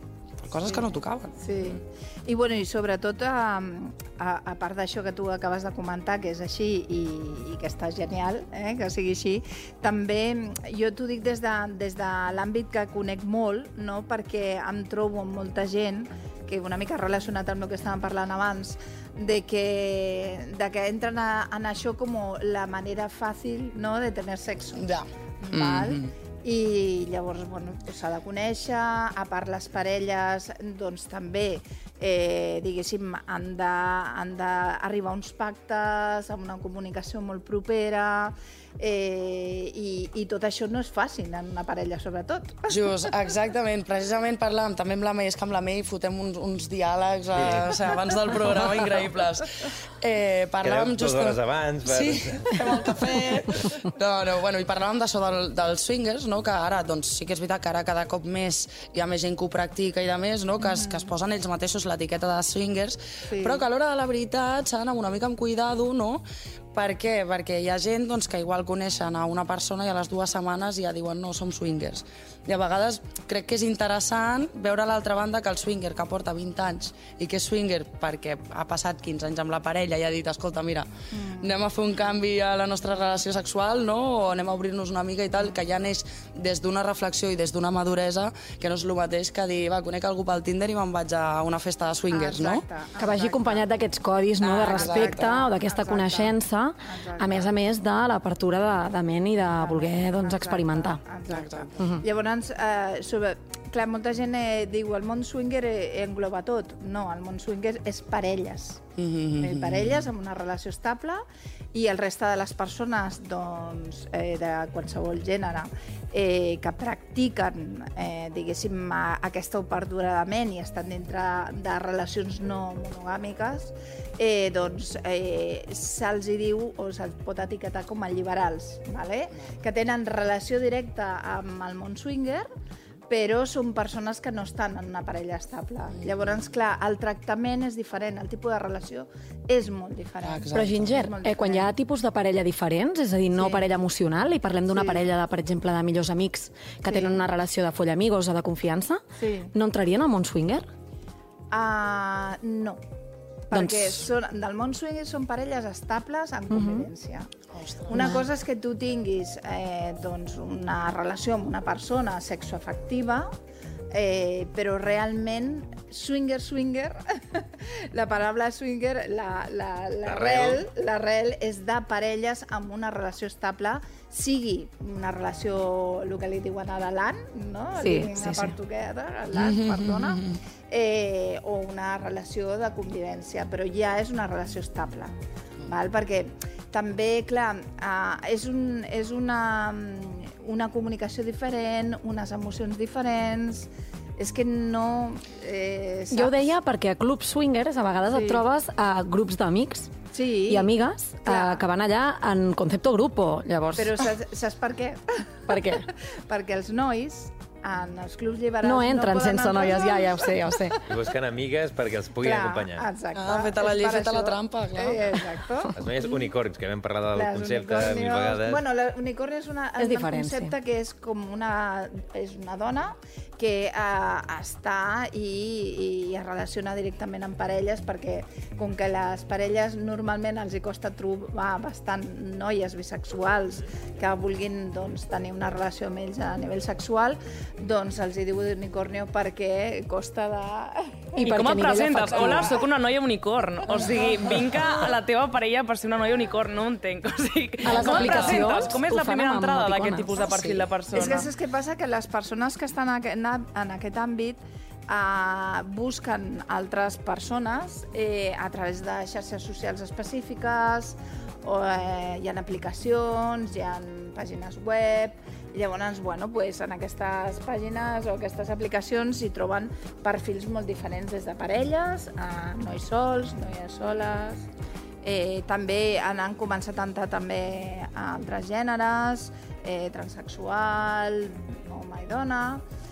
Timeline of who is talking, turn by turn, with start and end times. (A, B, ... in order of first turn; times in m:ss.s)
0:00.4-0:01.8 A
0:00.6-0:43.1 B
0:24.8-0:26.1 A
0:42.7-0:49.5 A
0:47.4-0:47.6 C
0:50.0-1:06.2 A
0:50.6-0:52.6 C
1:00.6-1:01.1 B
1:03.3-1:03.6 B
1:06.7-1:20.9 A
1:21.1-1:21.6 B
1:21.4-1:32.6 A
1:32.1-1:33.7 B
1:33.0-1:41.0 D
1:34.4-1:37.5 B
1:34.6-1:35.3 A
1:39.4-1:48.9 B
1:41.3-1:41.7 A
1:41.8-1:42.0 D
1:49.0-1:50.1 A
1:49.4-2:12.5 B
2:13.1-2:21.7 B
2:20.2-2:21.0 A
2:20.5-2:30.7 D
2:23.4-2:23.7 B
2:24.7-2:25.0 B
2:26.9-2:27.2 B
2:29.2-2:29.5 B
2:31.5-2:32.8 B
2:33.5-2:37.3 B
2:33.5-2:34.0 D
2:36.5-2:36.9 D
2:37.5-2:38.1 A
2:37.9-2:43.3 B
2:37.9-2:38.2 D
2:43.9-3:16.5 B
2:50.0-2:50.6 C
2:57.8-2:58.5 D
2:59.3-3:00.4 A
3:16.1-3:19.9 D
3:18.1-3:18.4 B
3:20.1-3:20.7 B
3:20.5-3:24.0 D
3:21.2-3:21.6 B
3:23.8-3:30.6 B
3:25.5-3:25.8 D
3:28.6-3:30.8 D
3:30.9-3:32.9 C
3:32.2-3:36.3 B
3:33.1-3:35.3 A
3:35.8-3:38.6 C
3:37.1-4:01.2 B
3:39.8-3:40.5 D
4:01.2-4:02.5 D
4:01.2-4:11.3 E
4:02.1-4:02.6 B
4:03.8-4:04.6 B
4:07.7-4:08.6 A
4:07.7-4:10.1 D
4:10.2-4:10.6 A
4:10.9-4:34.4 B
4:35.0-4:42.6 B